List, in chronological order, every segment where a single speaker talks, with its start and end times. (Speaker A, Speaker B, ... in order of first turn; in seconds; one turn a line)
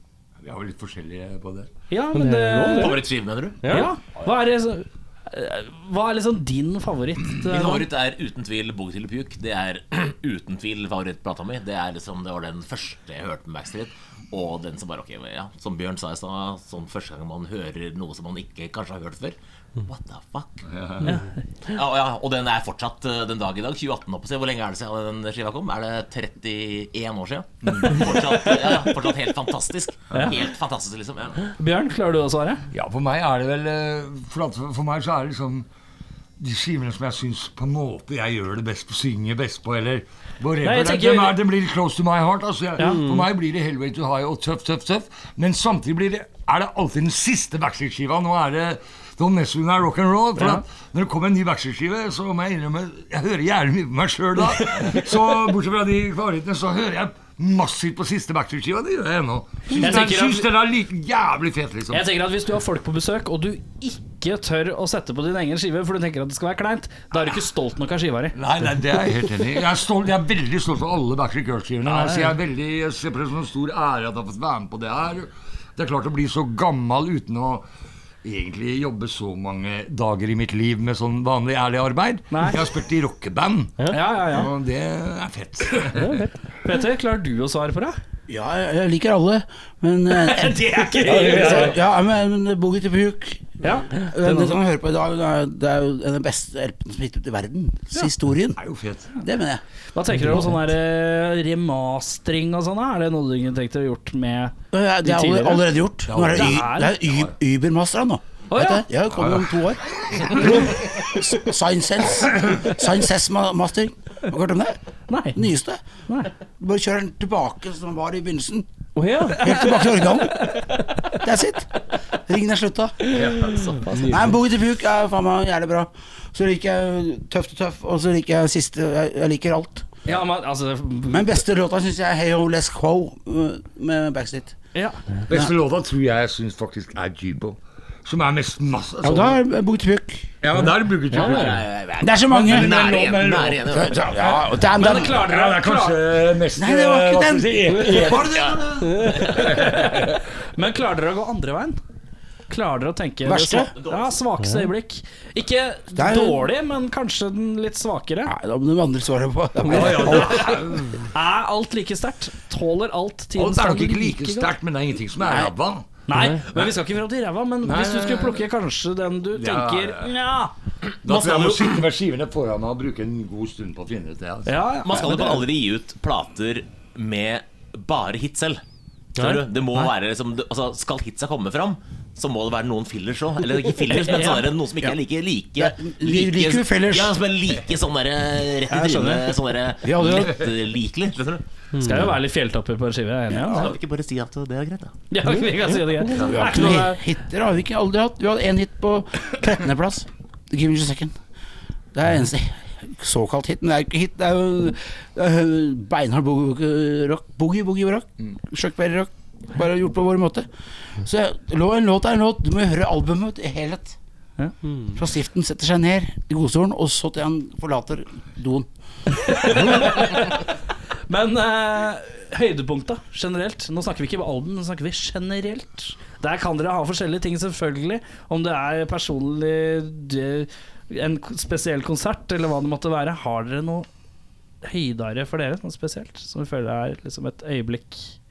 Speaker A: 0.4-1.7
Speaker B: 1.9-3.0
Speaker C: 2.1-3.0
Speaker D: 2.7-3.7
Speaker C: 3.6-3.9
Speaker B: 3.7-7.9
Speaker D: 7.5-20.6
Speaker A: 20.7-21.1
Speaker B: 21.0-21.3
Speaker D: 21.7-31.4
Speaker A: 27.6-28.2
Speaker B: 31.5-32.6
Speaker A: 32.7-35.7
Speaker A: 36.4-62.1
Speaker B: 40.6-41.4
Speaker C: 42.8-43.3
Speaker B: 50.4-50.6
Speaker B: 59.7-60.5
Speaker B: 61.9-68.4
Speaker A: 68.3-77.7
Speaker B: 71.8-72.4
Speaker A: 78.2-86.2
Speaker B: 82.3-82.6
Speaker B: 83.9-84.5
Speaker C: 86.0-86.3
Speaker B: 86.6-88.0
Speaker E: 88.3-98.6
Speaker B: 90.1-91.8
Speaker A: 91.0-91.8
Speaker B: 93.6-94.6
Speaker A: 98.6-99.1
Speaker E: 99.2-99.6
Speaker B: 100.0-105.7
Speaker E: 104.7-114.8
Speaker A: 106.1-107.3
Speaker B: 106.3-107.0
Speaker B: 108.5-108.8
Speaker A: 109.1-110.7
Speaker B: 115.1-115.4
Speaker E: 115.3-115.8
Speaker E: 116.6-118.7
Speaker C: 119.0-119.7
Speaker E: 119.4-120.5
Speaker E: 121.2-121.7
Speaker E: 122.3-123.2
Speaker A: 123.1-123.8
Speaker C: 123.9-124.3
Speaker E: 124.0-129.9
Speaker B: 130.1-131.4
Speaker E: 131.1-134.6
Speaker B: 134.8-135.0
Speaker A: 135.3-139.4
Speaker E: 139.0-140.3
Speaker A: 140.4-141.6
Speaker D: 141.1-144.1
Speaker E: 142.0-142.7
Speaker A: 142.2-150.2
Speaker E: 143.8-145.2
Speaker B: 144.8-146.0
Speaker E: 146.6-148.2
Speaker D: 148.1-149.7
Speaker B: 149.3-151.8
Speaker B: 152.5-158.3
Speaker E: 153.2-153.7
Speaker D: 153.8-154.2
Speaker E: 155.9-156.4
Speaker E: 158.3-160.6
Speaker A: 159.6-161.1
Speaker B: 159.7-164.5
Speaker A: 163.4-165.9
Speaker B: 166.1-170.5
Speaker C: 166.1-166.4
Speaker A: 167.6-168.5
Speaker A: 169.3-170.1
Speaker A: 171.0-174.6
Speaker D: 171.1-171.8
Speaker B: 174.5-175.4
Speaker D: 174.8-178.6
Speaker D: 179.2-191.4
Speaker B: 183.9-184.5
Speaker E: 185.6-187.2
Speaker B: 188.7-189.3
Speaker E: 189.8-190.3
Speaker C: 191.7-192.1
Speaker B: 191.8-193.7
Speaker D: 193.4-195.0
Speaker B: 195.1-197.0
Speaker C: 195.2-196.1
Speaker A: 196.1-196.4
Speaker E: 196.2-201.2
Speaker E: 201.9-210.5
Speaker E: 211.0-214.0
Speaker E: 214.9-218.7
Speaker B: 219.2-220.4
Speaker B: 221.1-233.9
Speaker B: 234.6-238.2